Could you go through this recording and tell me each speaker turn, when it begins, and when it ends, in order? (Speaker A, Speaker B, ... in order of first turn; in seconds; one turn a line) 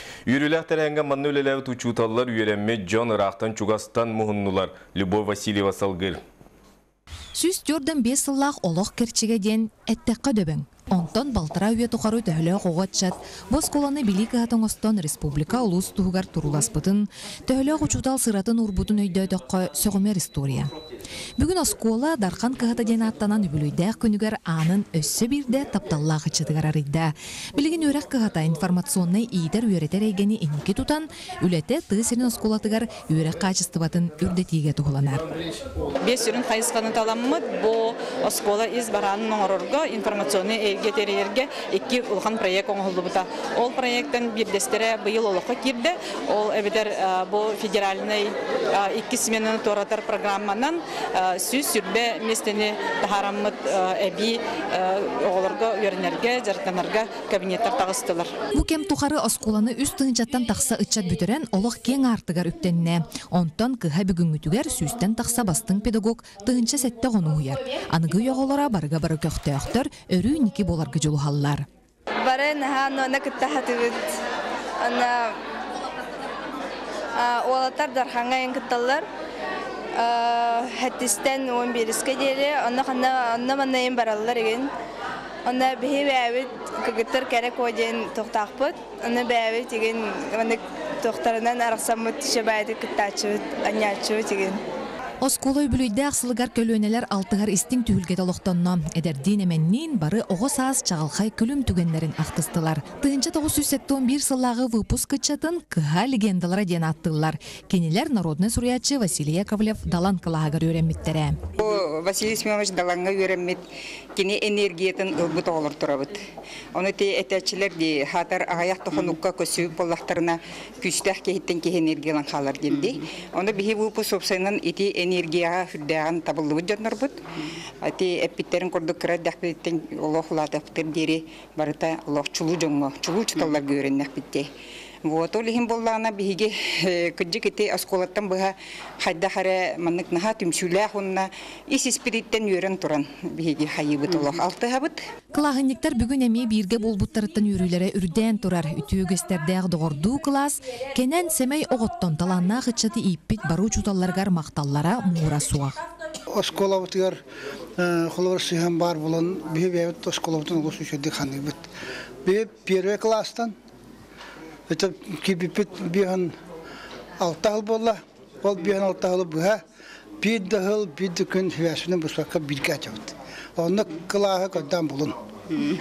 Speaker A: 0.2-6.2
Speaker B: 7.3-20.7
Speaker B: 21.4-35.3
Speaker C: 36.0-58.3
Speaker B: 58.5-71.6
Speaker D: 72.2-74.1
Speaker D: 74.8-75.4
Speaker D: 77.1-79.0
Speaker D: 80.0-84.7
Speaker D: 85.4-94.6
Speaker B: 95.2-111.4
Speaker E: 111.6-113.6
Speaker E: 114.1-116.2
Speaker E: 116.7-127.2
Speaker E: 127.8-134.5
Speaker E: 135.1-145.0
Speaker B: 145.3-155.8
Speaker F: 156.3-157.2
Speaker F: 157.8-161.7
Speaker F: 162.2-163.5
Speaker F: 164.7-166.3
Speaker F: 167.2-169.6
Speaker F: 170.2-175.2